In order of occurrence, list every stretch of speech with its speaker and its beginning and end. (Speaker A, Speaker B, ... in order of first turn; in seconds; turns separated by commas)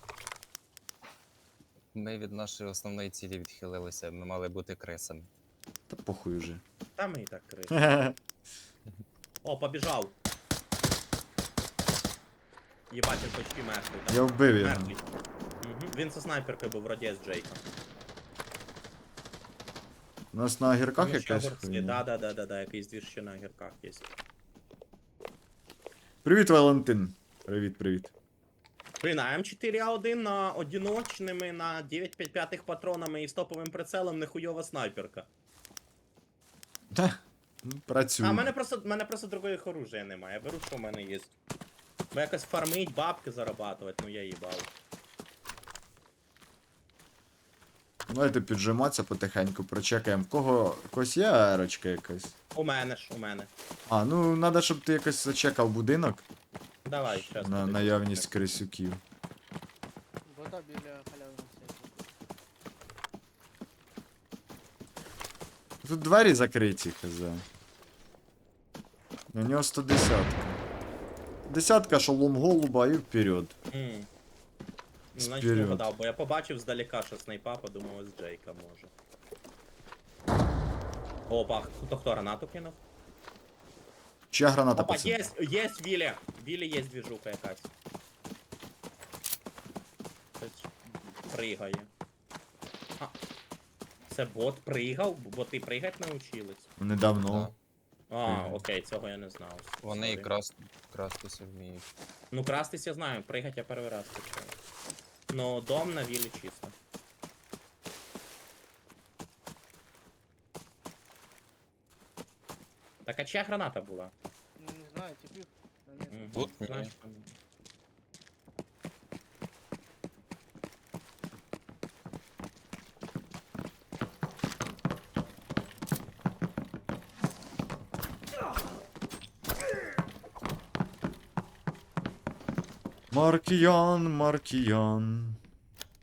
Speaker A: 1.9-5.3, Speaker B: 5.9-6.6, Speaker C: 7.0-7.8, Speaker B: 7.7-8.2, Speaker C: 9.4-10.2, Speaker C: 12.9-15.0, Speaker B: 14.1-14.9, Speaker C: 15.6-17.6, Speaker B: 20.3-22.0, Speaker C: 21.0-24.1, Speaker B: 26.2-28.1, Speaker C: 29.0-35.3, Speaker B: 36.9-38.5, Speaker C: 38.2-41.3, Speaker C: 42.1-44.7, Speaker B: 48.1-52.3, Speaker C: 52.5-53.5, Speaker B: 53.9-56.2, Speaker C: 56.9-58.3, Speaker B: 57.1-59.0, Speaker D: 60.3-62.1, Speaker B: 65.8-67.5, Speaker B: 69.3-70.6, Speaker B: 71.5-73.6, Speaker C: 73.7-74.1, Speaker C: 75.2-78.9, Speaker B: 75.2-75.8, Speaker C: 81.3-82.8, Speaker B: 84.3-85.3, Speaker C: 84.8-87.7, Speaker C: 90.4-91.9, Speaker C: 94.1-96.7, Speaker B: 96.8-97.5, Speaker A: 97.2-97.5, Speaker C: 98.1-100.3, Speaker B: 98.3-98.6, Speaker A: 99.8-101.9, Speaker C: 102.3-104.6, Speaker C: 105.3-106.8, Speaker C: 113.0-114.1, Speaker D: 114.6-116.5, Speaker C: 116.1-117.3, Speaker A: 116.3-116.9, Speaker B: 133.1-135.4